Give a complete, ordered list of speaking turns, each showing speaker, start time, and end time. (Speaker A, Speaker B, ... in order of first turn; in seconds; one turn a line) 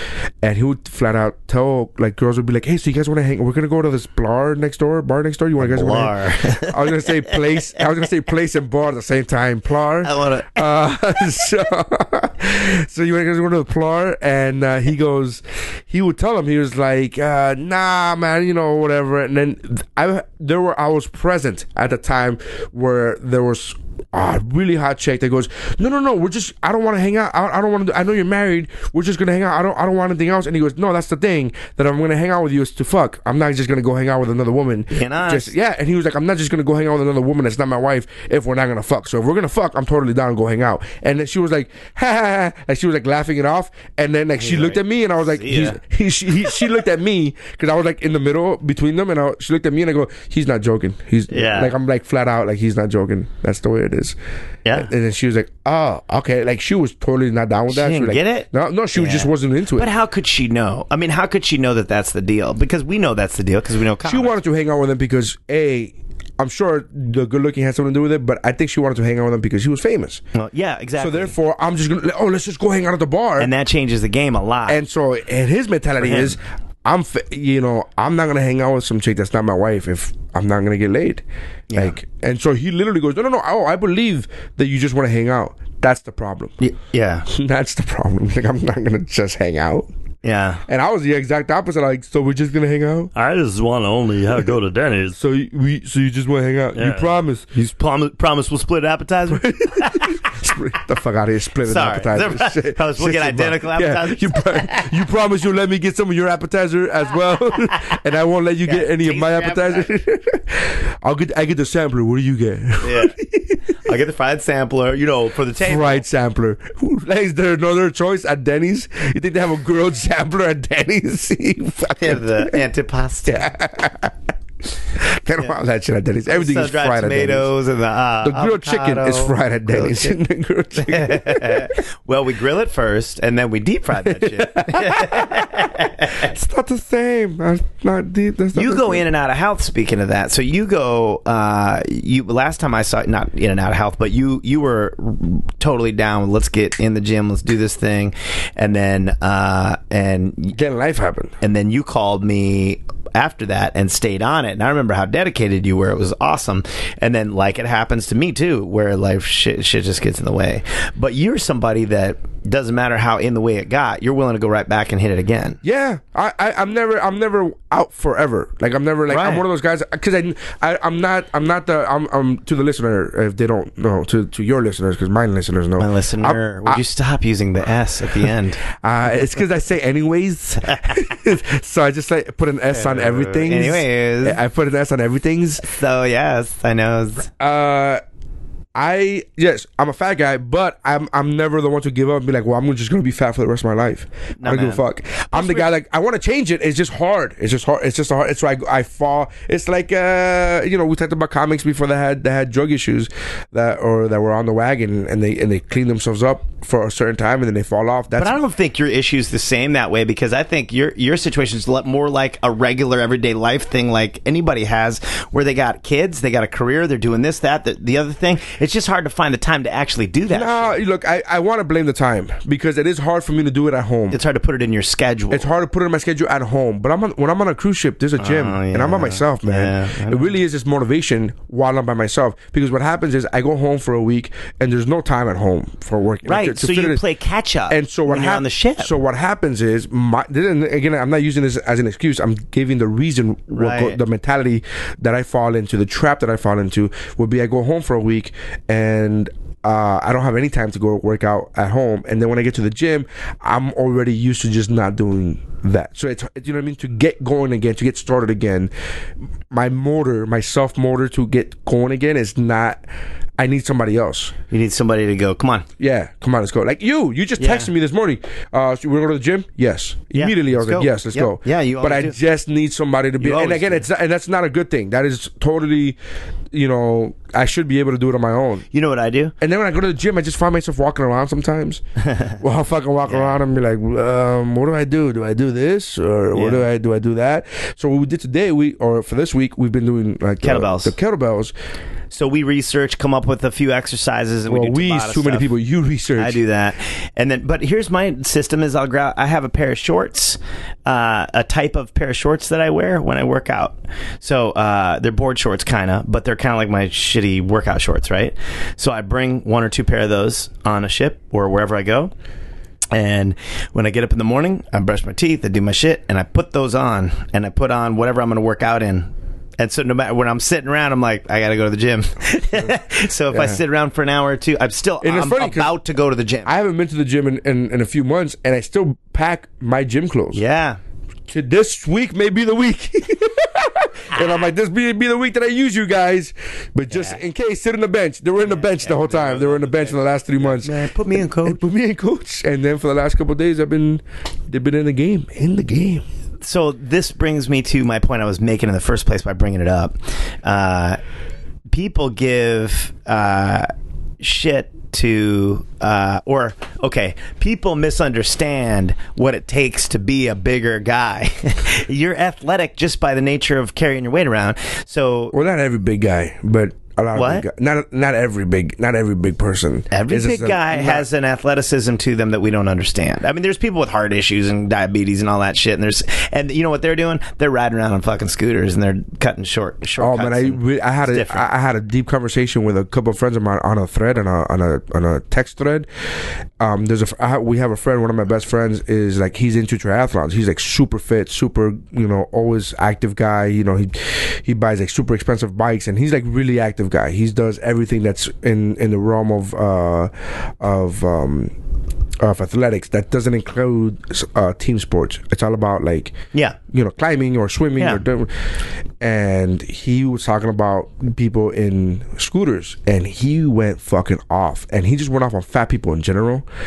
Speaker A: 0.4-54.1
Speaker B: 5.6-7.4
Speaker B: 10.0-10.7
Speaker B: 34.9-35.5
Speaker B: 44.4-45.8
Speaker B: 51.3-51.7
Speaker A: 54.7-59.9
Speaker B: 57.7-64.3
Speaker A: 64.0-70.2
Speaker B: 70.3-71.3
Speaker A: 71.0-73.5
Speaker B: 73.4-74.8
Speaker A: 74.7-81.2
Speaker B: 76.0-76.3
Speaker B: 81.7-82.0
Speaker A: 81.7-86.6
Speaker B: 86.6-87.3
Speaker A: 87.3-89.9
Speaker B: 90.2-90.6
Speaker A: 90.7-93.1
Speaker C: 93.2-95.2
Speaker A: 95.1-97.5
Speaker C: 96.8-97.2
Speaker B: 97.5-100.2
Speaker A: 99.3-113.6
Speaker B: 101.6-105.0
Speaker B: 108.6-109.9
Speaker B: 112.8-113.1
Speaker B: 113.8-116.0
Speaker A: 115.6-122.6
Speaker B: 122.0-123.5
Speaker A: 123.2-124.1
Speaker A: 125.0-127.5
Speaker B: 126.3-130.2
Speaker A: 128.2-131.7
Speaker B: 130.8-136.3
Speaker A: 134.1-139.0
Speaker B: 138.5-150.6
Speaker A: 150.5-151.3
Speaker B: 151.4-165.6
Speaker A: 165.6-176.8
Speaker B: 169.1-169.4
Speaker B: 175.8-178.6
Speaker A: 178.8-185.7
Speaker B: 180.7-181.0
Speaker B: 182.7-184.4
Speaker B: 185.6-187.3
Speaker A: 187.4-188.0
Speaker A: 188.7-208.4
Speaker B: 194.4-195.7
Speaker B: 208.2-220.8
Speaker A: 220.3-224.2
Speaker B: 224.1-225.5
Speaker A: 225.3-237.0
Speaker B: 228.2-230.4
Speaker B: 236.2-238.9
Speaker A: 237.7-258.7
Speaker B: 243.5-244.0
Speaker A: 259.5-262.8
Speaker A: 263.4-264.3
Speaker B: 264.5-265.7
Speaker A: 265.8-276.0
Speaker B: 267.4-267.7
Speaker B: 270.1-272.2
Speaker B: 273.2-273.9
Speaker A: 276.5-278.6
Speaker B: 278.7-279.3
Speaker A: 279.4-281.8
Speaker A: 282.4-291.5
Speaker B: 283.1-283.4
Speaker B: 286.3-286.7
Speaker B: 290.4-290.9
Speaker B: 292.1-295.5
Speaker A: 294.5-296.4
Speaker B: 296.2-312.1
Speaker B: 312.9-326.5
Speaker A: 323.3-323.6
Speaker A: 325.0-325.7
Speaker A: 326.4-330.4
Speaker B: 330.3-330.8
Speaker A: 331.3-340.8
Speaker B: 336.9-337.2
Speaker B: 338.4-341.6
Speaker A: 341.4-346.0
Speaker B: 346.4-351.0
Speaker B: 351.7-353.7
Speaker B: 354.2-365.3
Speaker A: 365.3-371.1
Speaker B: 367.1-367.4
Speaker B: 369.9-381.5
Speaker A: 380.0-385.9
Speaker A: 386.6-401.5
Speaker A: 402.2-406.2
Speaker A: 406.7-408.3
Speaker A: 409.0-416.4